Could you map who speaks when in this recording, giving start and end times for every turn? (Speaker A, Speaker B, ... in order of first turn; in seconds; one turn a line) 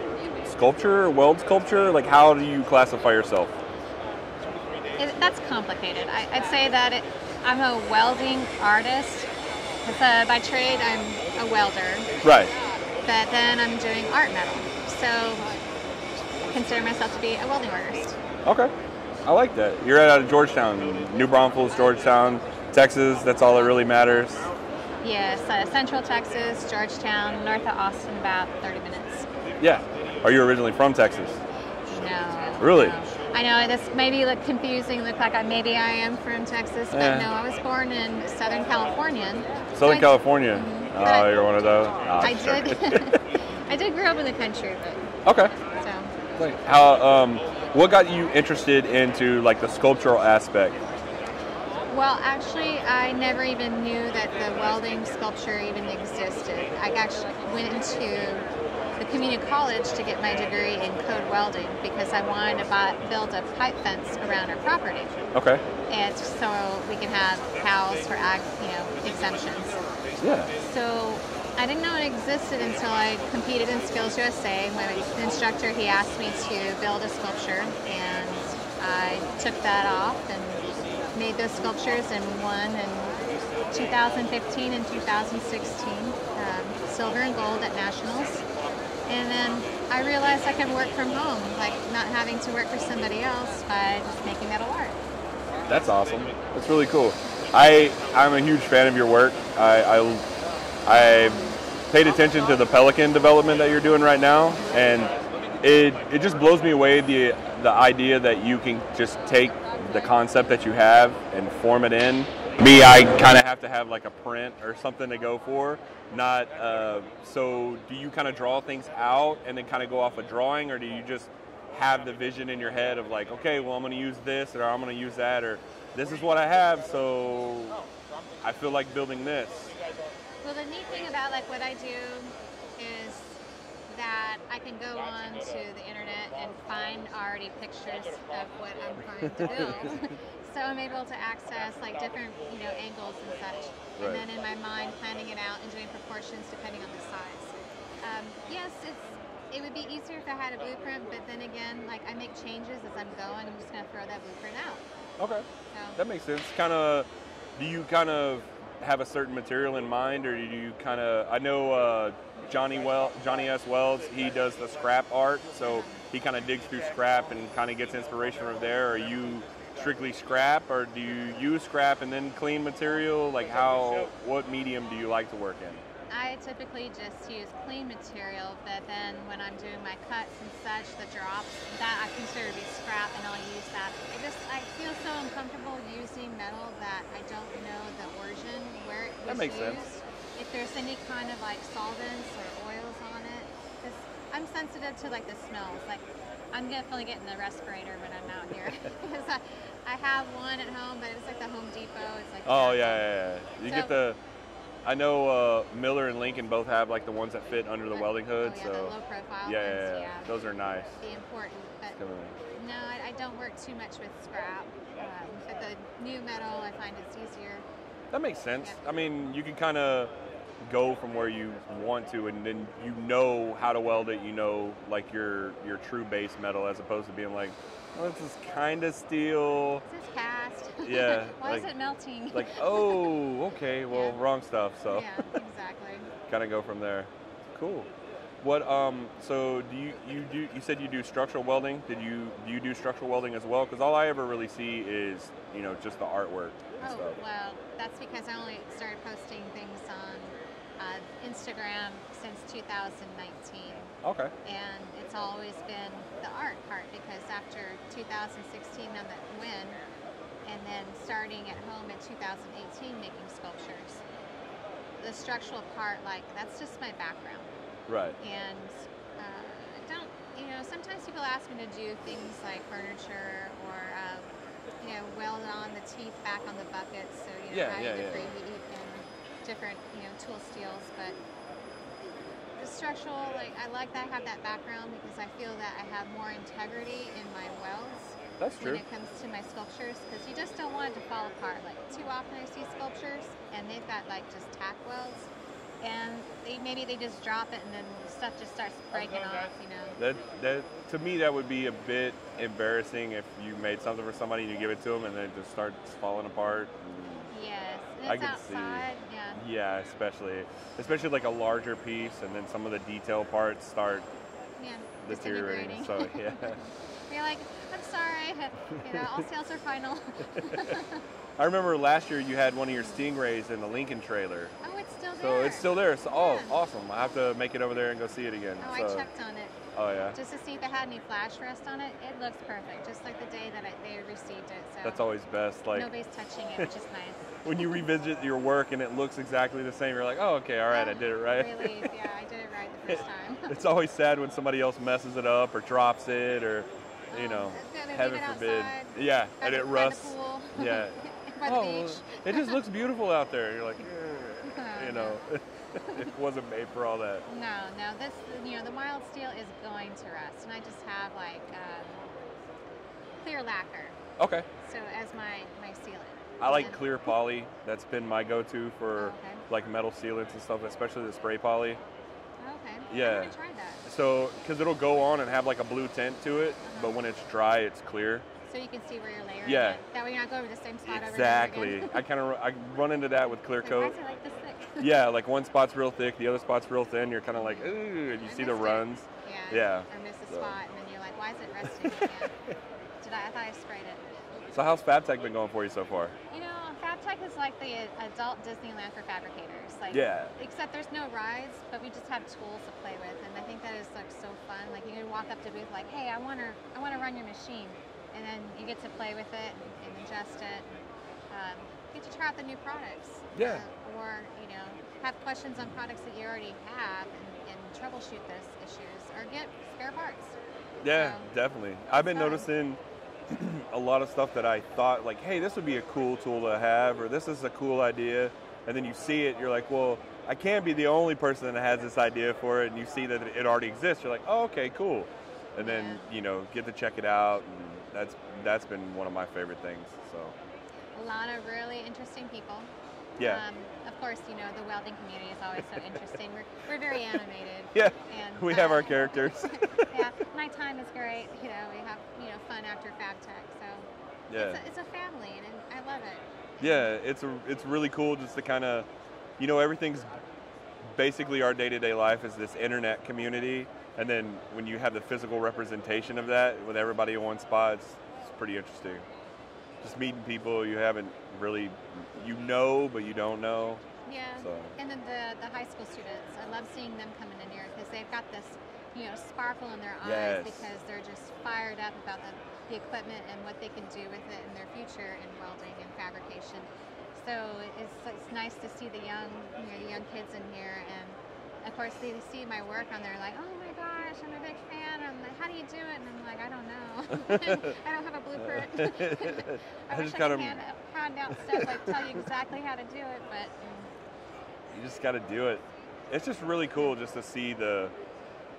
Speaker A: 0.5-3.5
Speaker B: 5.0-9.3
Speaker B: 9.8-12.2
Speaker A: 12.2-12.5
Speaker B: 13.0-15.5
Speaker B: 16.5-18.2
Speaker A: 18.5-18.7
Speaker A: 19.2-24.5
Speaker B: 23.4-23.8
Speaker B: 25.0-29.3
Speaker A: 29.6-31.4
Speaker B: 31.9-41.3
Speaker A: 32.6-33.0
Speaker A: 36.9-37.3
Speaker A: 39.8-43.1
Speaker B: 42.2-45.1
Speaker A: 45.3-45.5
Speaker B: 45.7-46.1
Speaker A: 46.4-50.8
Speaker B: 51.9-58.5
Speaker B: 59.0-65.1
Speaker A: 65.3-65.6
Speaker B: 65.9-69.8
Speaker A: 70.2-70.5
Speaker B: 70.6-88.5
Speaker B: 89.1-95.0
Speaker A: 95.7-100.2
Speaker A: 100.9-127.8
Speaker A: 128.4-129.8
Speaker B: 130.4-154.8
Speaker A: 139.2-139.9
Speaker A: 144.0-144.3
Speaker A: 155.2-155.4
Speaker B: 155.7-156.0
Speaker A: 156.0-175.8
Speaker B: 165.6-166.0
Speaker B: 176.1-203.1
Speaker A: 189.3-189.8
Speaker A: 202.5-204.2
Speaker B: 203.6-204.0
Speaker A: 204.8-211.0
Speaker B: 207.9-212.0
Speaker A: 211.9-212.4
Speaker B: 212.5-217.7
Speaker A: 218.1-220.1
Speaker A: 220.6-229.8
Speaker B: 229.9-233.2
Speaker A: 230.8-231.7
Speaker A: 232.3-235.3
Speaker B: 233.9-234.2
Speaker B: 234.9-236.1
Speaker A: 236.3-237.9
Speaker A: 238.4-247.2
Speaker B: 246.8-259.8
Speaker A: 254.0-254.3
Speaker B: 260.4-264.0
Speaker B: 265.0-267.5
Speaker A: 267.9-268.2
Speaker B: 268.2-281.2
Speaker A: 277.5-278.3
Speaker B: 282.6-295.3
Speaker A: 288.4-288.8
Speaker B: 295.8-300.0
Speaker A: 300.0-307.3
Speaker B: 307.3-309.4
Speaker A: 308.1-314.1
Speaker B: 314.6-321.0
Speaker A: 315.0-316.6
Speaker A: 318.8-319.2
Speaker A: 320.4-320.8
Speaker A: 321.4-324.5
Speaker B: 322.7-323.1
Speaker B: 324.6-326.6
Speaker A: 325.2-329.1
Speaker B: 328.6-329.6
Speaker A: 329.8-330.2
Speaker B: 330.1-335.1
Speaker A: 334.8-335.9
Speaker B: 335.7-337.8
Speaker A: 337.4-341.9
Speaker B: 340.7-343.6
Speaker A: 342.9-357.2
Speaker B: 347.1-352.6
Speaker B: 354.4-355.2
Speaker B: 355.8-356.1
Speaker B: 357.3-362.1
Speaker B: 363.2-364.0
Speaker A: 364.2-364.5
Speaker B: 364.6-367.0
Speaker A: 366.4-371.8
Speaker B: 369.0-369.4
Speaker B: 372.4-373.9
Speaker A: 372.9-373.4
Speaker A: 373.9-378.2
Speaker B: 376.6-376.9
Speaker B: 378.5-382.0
Speaker A: 379.4-379.8
Speaker A: 380.9-383.9
Speaker B: 383.6-385.0
Speaker A: 384.8-390.6
Speaker B: 387.3-392.3
Speaker A: 391.6-392.3
Speaker B: 393.0-394.1
Speaker A: 394.5-396.1
Speaker B: 396.3-410.7
Speaker A: 399.9-400.3
Speaker B: 411.3-420.4
Speaker A: 413.4-413.6
Speaker A: 420.8-440.4
Speaker B: 420.9-421.3
Speaker B: 422.0-422.5
Speaker B: 435.6-436.1
Speaker B: 440.9-456.9
Speaker A: 443.2-443.4
Speaker A: 447.8-449.9
Speaker A: 454.3-454.6
Speaker A: 456.6-458.9
Speaker A: 459.4-460.2
Speaker A: 460.9-469.1
Speaker A: 469.8-473.8
Speaker B: 474.1-503.9
Speaker A: 474.4-474.8
Speaker A: 480.0-480.7
Speaker A: 497.1-497.8
Speaker A: 498.4-500.6
Speaker A: 501.5-502.2
Speaker A: 504.7-507.9